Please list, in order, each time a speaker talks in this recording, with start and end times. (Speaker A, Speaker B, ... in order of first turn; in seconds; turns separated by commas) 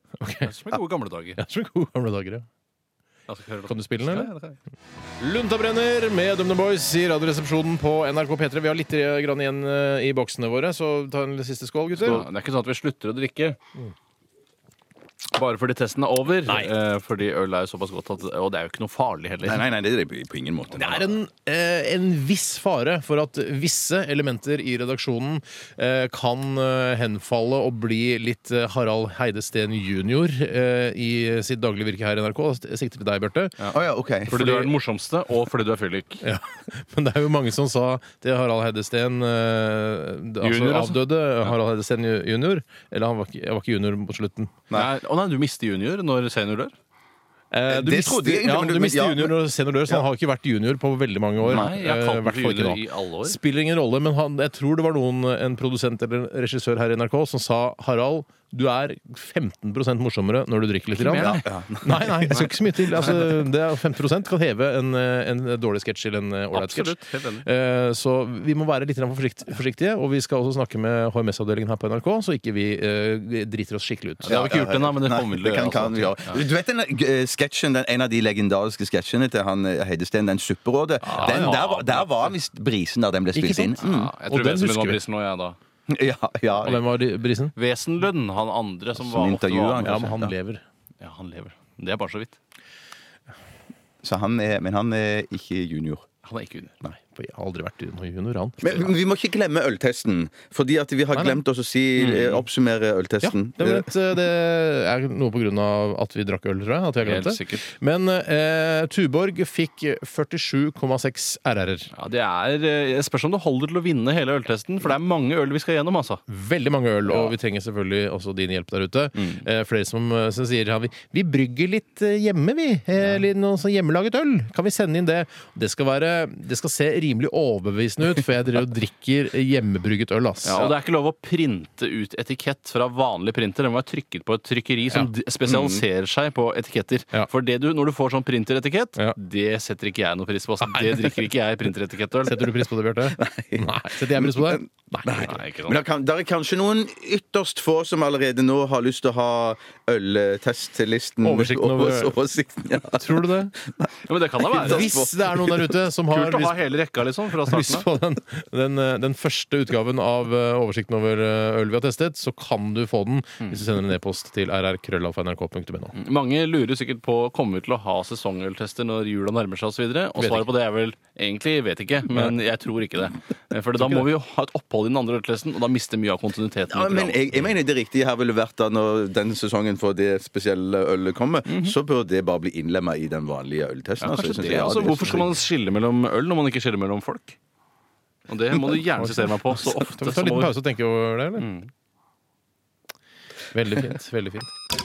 Speaker A: 0.2-0.5, Speaker B: 0.4-1.4, Speaker A: 1.4-2.5, Speaker B: 3.3-4.6, Speaker A: 3.7-4.3, Speaker A: 5.2-12.2, Speaker B: 12.0-13.6, Speaker B: 15.3-19.6, Speaker C: 19.4-21.1, Speaker A: 20.8-33.5, Speaker B: 33.6-36.2, Speaker C: 33.7-34.4, Speaker A: 34.3-34.7, Speaker A: 36.2-44.6, Speaker B: 40.4-41.6, Speaker B: 44.7-46.7, Speaker A: 47.5-74.5, Speaker C: 47.7-50.0, Speaker B: 51.4-53.4, Speaker B: 60.9-61.4, Speaker C: 61.2-62.5, Speaker B: 62.3-63.3, Speaker B: 66.5-67.5, Speaker B: 74.2-76.5, Speaker C: 74.3-84.1, Speaker B: 81.0-82.3, Speaker A: 81.1-81.6, Speaker A: 83.3-85.0, Speaker B: 83.8-85.6, Speaker C: 85.9-86.8, Speaker B: 86.6-87.0, Speaker A: 86.6-87.5, Speaker B: 87.5-89.9, Speaker C: 89.0-90.3, Speaker A: 89.8-90.6, Speaker B: 91.0-92.4, Speaker C: 94.0-96.1, Speaker B: 96.2-96.8, Speaker A: 96.8-98.9, Speaker C: 98.6-103.9, Speaker A: 101.1-101.4, Speaker B: 102.0-102.5, Speaker A: 103.2-111.9, Speaker B: 107.0-107.7, Speaker B: 111.9-116.2, Speaker A: 116.3-130.8, Speaker B: 117.0-117.3, Speaker B: 119.2-119.4, Speaker B: 130.4-142.5, Speaker C: 135.5-135.8, Speaker A: 140.6-141.0, Speaker A: 142.2-145.3, Speaker C: 143.1-153.9, Speaker B: 145.2-145.8, Speaker A: 151.2-152.2, Speaker A: 152.8-153.6, Speaker B: 154.1-155.0, Speaker A: 154.5-156.6, Speaker C: 154.5-155.7, Speaker B: 156.1-157.8, Speaker A: 157.4-165.9, Speaker B: 166.0-177.4, Speaker A: 170.2-170.5, Speaker A: 173.8-174.1, Speaker C: 176.7-185.3, Speaker B: 181.5-181.8, Speaker B: 184.0-187.4, Speaker B: 188.3-190.6, Speaker A: 189.0-191.5, Speaker B: 191.4-191.7, Speaker A: 193.5-194.5